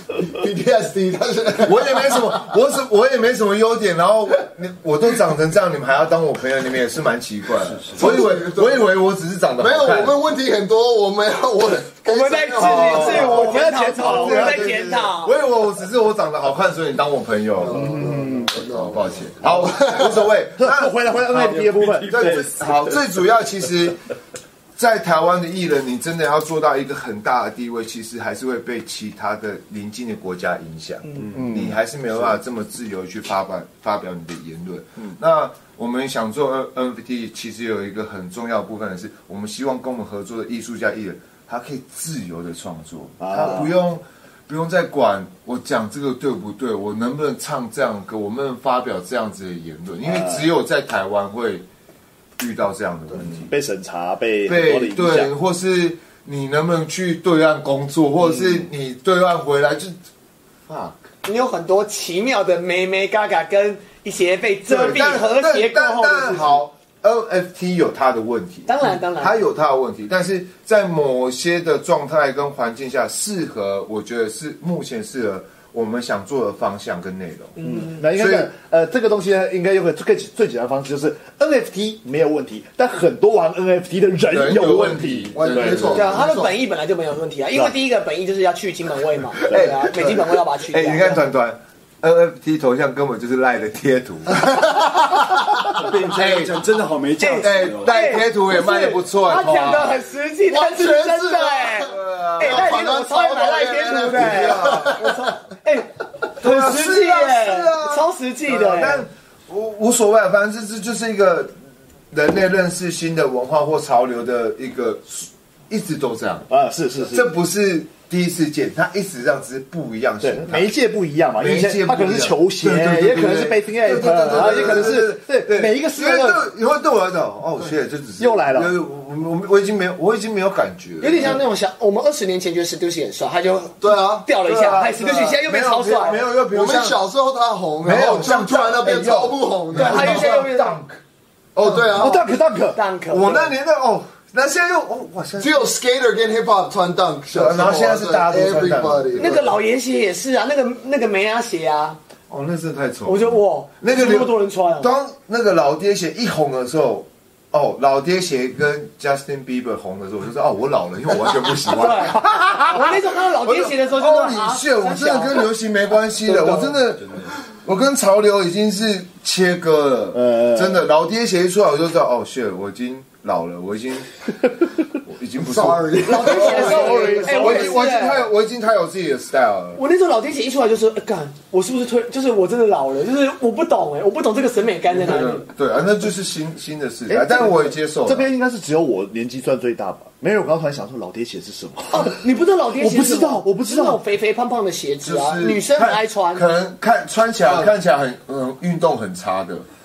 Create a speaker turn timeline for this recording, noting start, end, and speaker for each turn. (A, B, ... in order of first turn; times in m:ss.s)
0:00.2-0:02.3 A
0:01.6-0:10.2 B
0:07.9-0:09.0 A
0:09.6-0:13.6 A
0:12.0-0:15.3 C
0:12.6-0:21.5 B
0:13.0-0:14.8 D
0:17.6-0:20.3 A
0:17.7-0:18.5 D
0:20.6-0:22.4 D
0:21.2-0:23.0 E
0:22.1-0:24.0 B
0:24.8-0:51.6 B
0:31.2-0:31.5 E
0:31.3-0:31.8 D
0:43.2-0:43.7 D
0:50.0-0:50.4 D
0:52.4-0:53.5 B
0:53.2-0:55.3 D
0:54.5-1:00.0 B
1:00.7-1:01.0 B
1:01.2-1:06.6 C
1:04.7-1:17.6 B
1:08.7-1:09.4 C
1:17.6-1:18.0 C
1:17.6-1:26.0 D
1:18.1-1:18.5 B
1:24.3-1:26.3 B
1:25.4-1:26.5 A
1:25.9-1:31.2 C
1:29.5-1:36.6 B
1:35.7-1:38.0 E
1:37.2-1:49.0 C
1:37.4-1:40.0 B
1:40.5-1:45.1 A
1:41.8-1:42.8 B
1:43.9-1:45.0 B
1:46.4-1:51.5 B
1:52.1-1:56.5 B
1:56.5-1:57.3 D
1:57.1-2:00.7 B
2:00.2-2:06.4 D
2:01.4-2:11.4 B
2:08.2-2:08.7 D
2:11.0-2:16.2 C
2:13.8-2:14.3 A
2:14.4-2:17.0 B
2:16.5-2:20.4 A
2:17.8-2:21.0 B
2:19.7-2:20.8 C
2:21.6-2:22.2 B
2:21.6-2:22.2 A
2:22.0-2:22.8 D
2:22.7-2:23.5 C
2:23.1-2:25.7 B
2:25.4-2:29.4 A
2:27.3-2:29.5 B
2:29.2-2:32.0 C
2:32.3-2:54.2 B
2:33.1-2:34.9 C
2:41.7-2:45.5 C
2:47.0-2:47.3 E
2:50.1-2:50.9 D
2:55.0-2:59.8 B
2:55.4-2:57.5 A
2:56.1-2:58.3 C
2:56.2-2:57.8 D
2:59.8-3:05.5 C
3:04.9-3:08.3 B
3:07.1-3:12.1 D
3:11.9-3:16.4 C
3:12.8-3:14.0 D
3:15.0-3:19.7 B